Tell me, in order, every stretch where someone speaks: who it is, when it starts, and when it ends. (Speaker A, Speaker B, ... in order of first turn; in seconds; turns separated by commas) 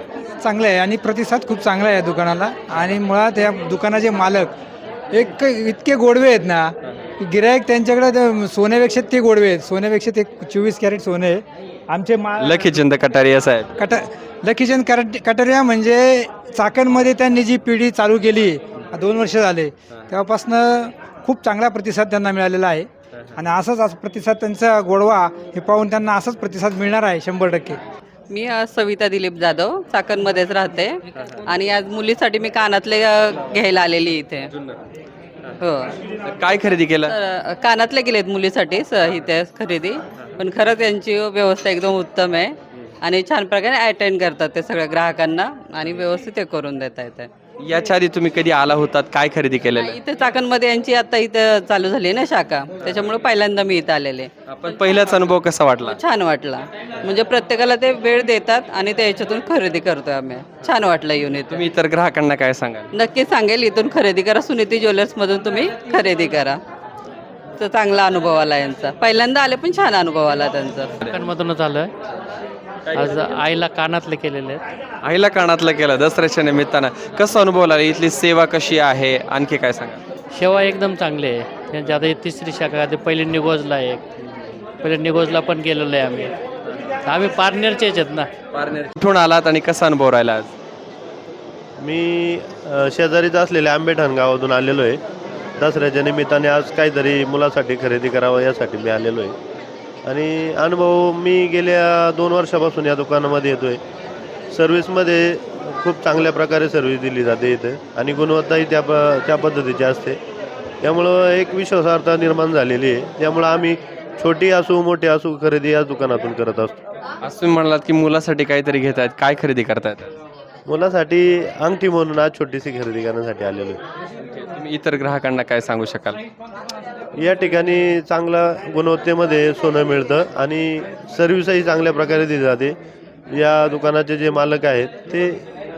Speaker A: 0.4-4.6, Speaker A: 5.1-12.6, Speaker B: 12.4-13.7, Speaker A: 13.8-27.8, Speaker C: 28.3-34.5, Speaker C: 35.6-35.9, Speaker B: 36.3-37.1, Speaker C: 37.1-47.3, Speaker B: 47.6-50.0, Speaker C: 49.8-54.3, Speaker B: 54.5-56.0, Speaker C: 55.9-61.6, Speaker B: 61.5-62.9, Speaker C: 62.9-66.6, Speaker C: 67.6-70.9, Speaker D: 71.0-71.9, Speaker D: 72.9-74.6, Speaker B: 75.0-80.0, Speaker D: 80.3-84.0, Speaker D: 84.8-86.3, Speaker D: 87.1-88.3, Speaker B: 88.5-90.5, Speaker E: 91.8-95.0, Speaker E: 95.6-99.4, Speaker E: 100.0-103.8, Speaker E: 104.5-110.2, Speaker E: 110.8-116.8, Speaker B: 117.2-120.1, Speaker E: 120.7-123.8, Speaker B: 124.4-126.2, Speaker E: 127.2-132.8, Speaker E: 133.3-135.4